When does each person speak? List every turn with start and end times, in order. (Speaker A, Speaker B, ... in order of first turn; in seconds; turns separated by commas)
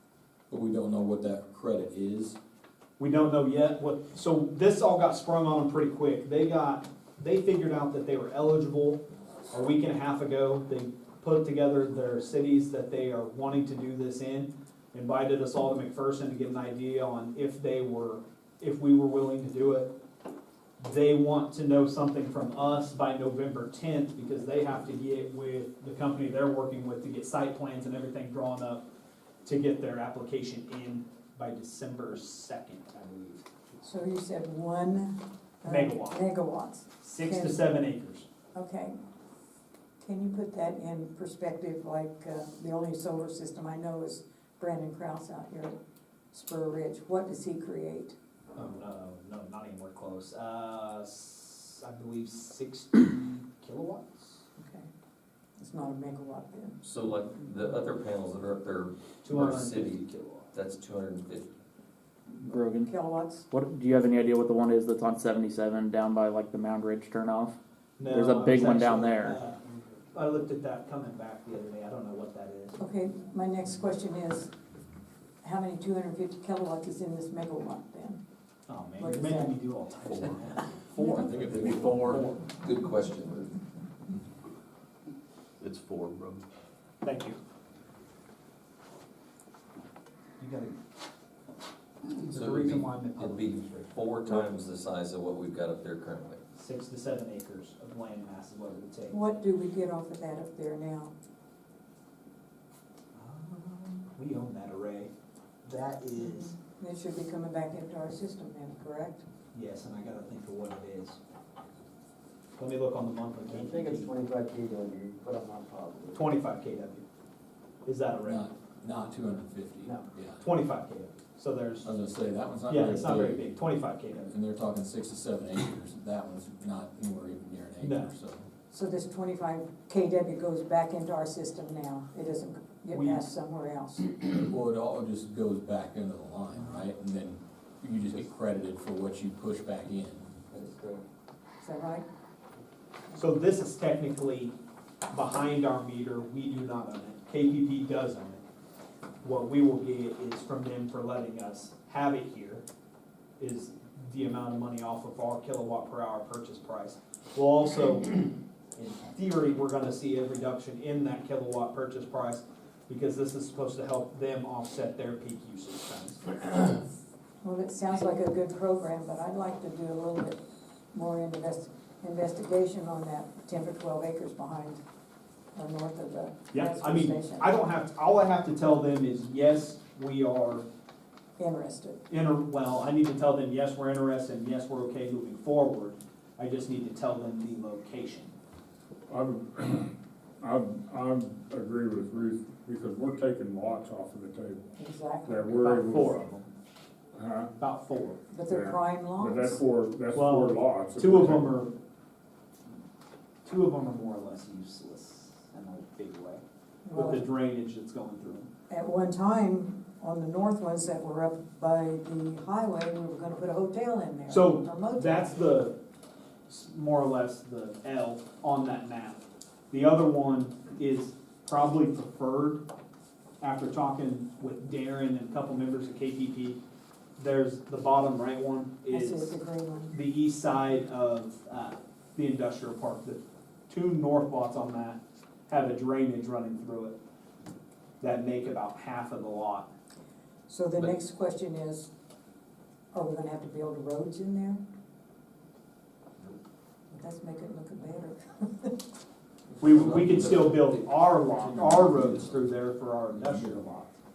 Speaker A: 0.5-2.4, Speaker B: 3.0-19.9, Speaker B: 20.8-28.8, Speaker B: 29.4-33.5, Speaker C: 33.8-37.7, Speaker B: 35.6-36.2, Speaker B: 37.0-38.3, Speaker C: 38.5-39.0, Speaker C: 40.0-45.8, Speaker C: 46.3-48.2, Speaker B: 48.5-54.4, Speaker C: 54.6-54.9, Speaker C: 55.6-56.8, Speaker D: 56.8-61.5, Speaker B: 59.2-60.5, Speaker E: 62.4-62.9, Speaker C: 62.9-63.5, Speaker E: 63.5-69.4, Speaker B: 68.0-69.6, Speaker B: 70.1-72.8, Speaker C: 72.8-74.5, Speaker C: 75.4-78.2, Speaker B: 78.7-80.7, Speaker C: 79.0-79.5, Speaker A: 81.0-82.3, Speaker C: 81.0-81.3, Speaker D: 81.4-83.5, Speaker D: 85.6-86.4, Speaker B: 87.0-87.4, Speaker B: 90.4-90.7, Speaker B: 92.2-94.4, Speaker D: 92.3-96.4, Speaker B: 96.5-99.2, Speaker C: 99.1-101.1, Speaker B: 103.1-105.1, Speaker B: 105.6-106.6, Speaker C: 106.2-109.2, Speaker B: 109.5-111.2, Speaker B: 112.6-114.1, Speaker F: 113.5-116.2, Speaker B: 116.1-117.0, Speaker B: 117.8-118.5, Speaker A: 118.2-120.4, Speaker B: 119.8-121.9, Speaker A: 121.8-123.4, Speaker B: 122.7-124.3, Speaker A: 124.3-128.5, Speaker B: 127.8-128.1, Speaker C: 128.7-134.1, Speaker B: 132.9-133.2, Speaker A: 134.2-140.4, Speaker C: 141.6-142.1, Speaker B: 143.1-144.6, Speaker B: 145.1-148.4, Speaker B: 149.2-152.6, Speaker B: 153.4-166.7, Speaker C: 167.4-170.4, Speaker C: 170.9-174.8, Speaker C: 175.5-177.5, Speaker B: 176.5-180.7, Speaker C: 181.4-182.0, Speaker B: 182.1-188.3, Speaker G: 189.1-194.7, Speaker C: 194.8-195.5, Speaker G: 195.3-196.2, Speaker B: 195.5-196.5, Speaker G: 197.1-197.5, Speaker B: 197.6-198.2, Speaker C: 198.3-199.6, Speaker G: 198.5-201.6, Speaker B: 200.1-201.7, Speaker B: 203.4-208.5, Speaker C: 206.8-207.2, Speaker C: 208.7-215.4, Speaker B: 214.3-215.8, Speaker B: 216.5-222.6, Speaker B: 223.4-226.6, Speaker B: 227.2-229.3, Speaker C: 228.9-229.9, Speaker B: 229.9-237.0, Speaker B: 238.0-239.7, Speaker C: 240.5-241.9, Speaker C: 242.9-244.6, Speaker C: 246.9-248.8, Speaker A: 249.5-252.5, Speaker B: 249.6-253.9, Speaker A: 253.1-253.6